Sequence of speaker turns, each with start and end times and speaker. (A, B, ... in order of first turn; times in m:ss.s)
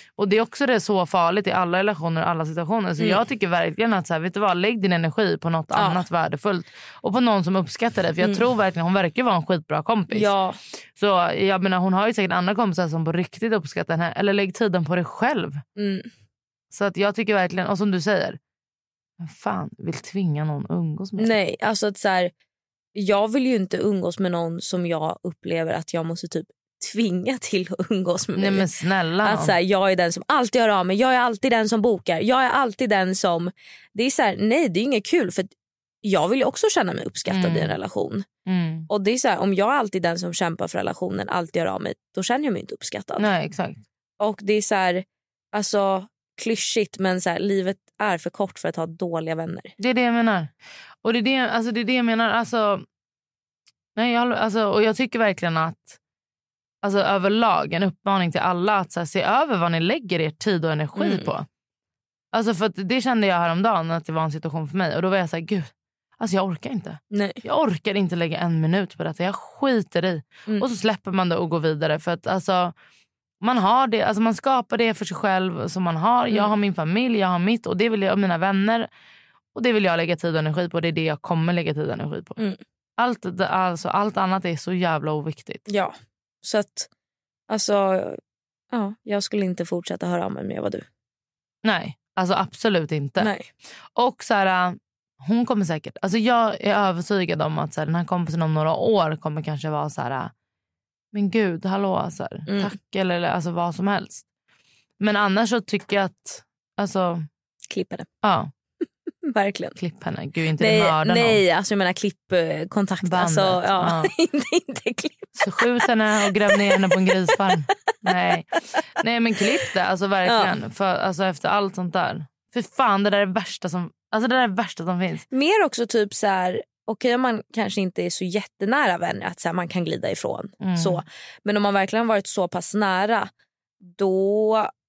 0:00.2-0:10.3 A
0:05.7-0:06.0 B
0:10.1-0:10.6 B
0:11.0-0:15.6 A
0:15.8-0:16.1 B
0:16.7-0:18.4 A
0:19.2-0:21.3 A
0:21.2-0:22.3 B
0:22.9-0:28.6 B
0:28.4-0:29.5 A
0:29.2-0:35.5 B
0:36.0-0:38.2 B
0:37.3-0:37.7 A
0:38.4-0:38.9 A
0:38.9-0:43.3 B
0:43.2-0:43.8 A
0:44.2-0:49.7 B
0:49.8-0:50.5 A
0:51.0-0:52.8 A
0:54.0-0:56.0 A
0:56.8-1:01.4 A
1:01.0-1:01.3 B
1:02.3-1:12.7 A
1:07.1-1:07.4 B
1:13.4-1:18.9 A
1:19.5-1:22.4 A
1:23.0-1:25.6 A
1:25.7-1:26.9 B
1:27.5-1:28.2 B
1:28.7-1:30.8 B
1:31.6-1:33.3 A
1:33.2-1:33.5 B
1:34.0-1:40.3 A
1:41.1-1:44.2 A
1:45.0-1:47.2 A
1:47.7-1:48.1 B
1:48.2-1:48.5 A
1:49.2-1:49.8 B
1:49.8-1:51.4 A
1:50.6-1:55.5 B
1:53.0-1:54.1 A
1:55.4-2:05.2 A
1:56.4-1:57.1 B
2:00.2-2:00.5 B
2:05.3-2:13.3 B
2:10.6-2:11.0 A
2:13.8-2:14.7 B